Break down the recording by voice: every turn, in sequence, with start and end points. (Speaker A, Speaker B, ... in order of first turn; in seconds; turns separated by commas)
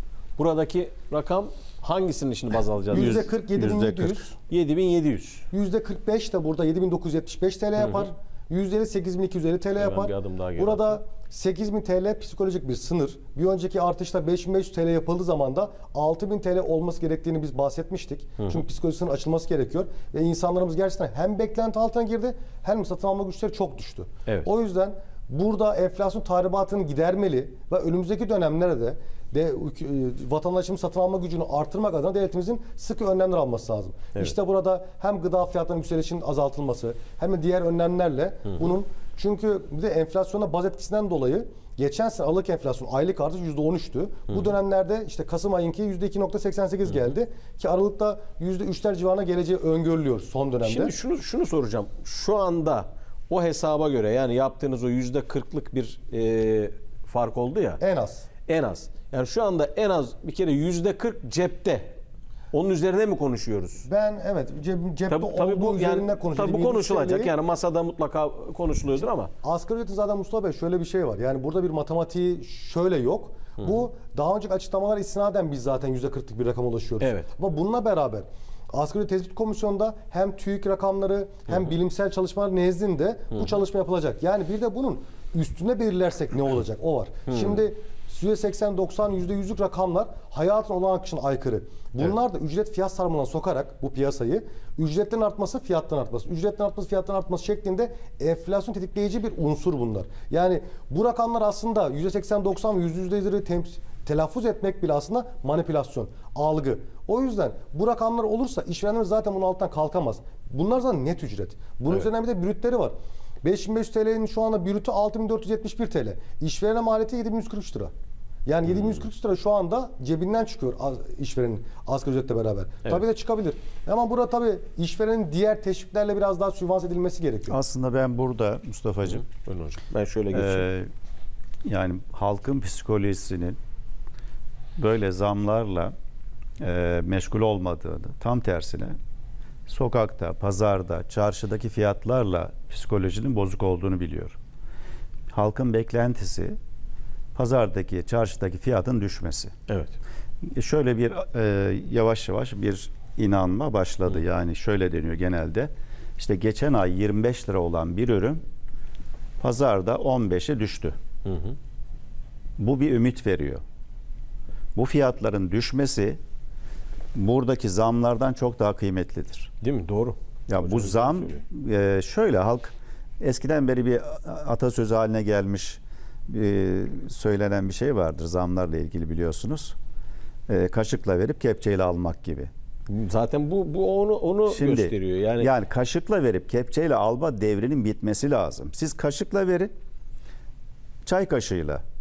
Speaker A: 0.4-5.5, Speaker B: 2.9-4.3, Speaker B: 5.5-51.0, Speaker A: 7.8-8.1, Speaker A: 9.8-11.0, Speaker A: 50.6-57.8, Speaker B: 57.8-58.3, Speaker A: 58.5-61.9, Speaker A: 62.5-63.9, Speaker B: 63.8-67.3, Speaker A: 65.1-69.3, Speaker B: 69.4-117.9, Speaker A: 77.0-77.3, Speaker A: 87.3-87.6, Speaker B: 118.5-127.6, Speaker C: 127.5-129.2, Speaker A: 129.2-130.7, Speaker C: 130.3-130.9, Speaker C: 131.7-133.6, Speaker C: 134.8-135.9, Speaker C: 136.6-139.0, Speaker C: 139.7-144.4, Speaker C: 145.3-146.6, Speaker C: 147.3-149.5, Speaker A: 149.7-150.0, Speaker C: 150.5-158.4, Speaker C: 159.4-161.0, Speaker A: 161.3-161.6, Speaker C: 162.6-163.6, Speaker C: 164.8-166.2, Speaker C: 167.2-169.5, Speaker A: 169.6-171.4, Speaker C: 170.5-179.8, Speaker C: 180.5-182.5, Speaker A: 182.9-185.5, Speaker C: 184.5-189.7, Speaker C: 191.0-191.8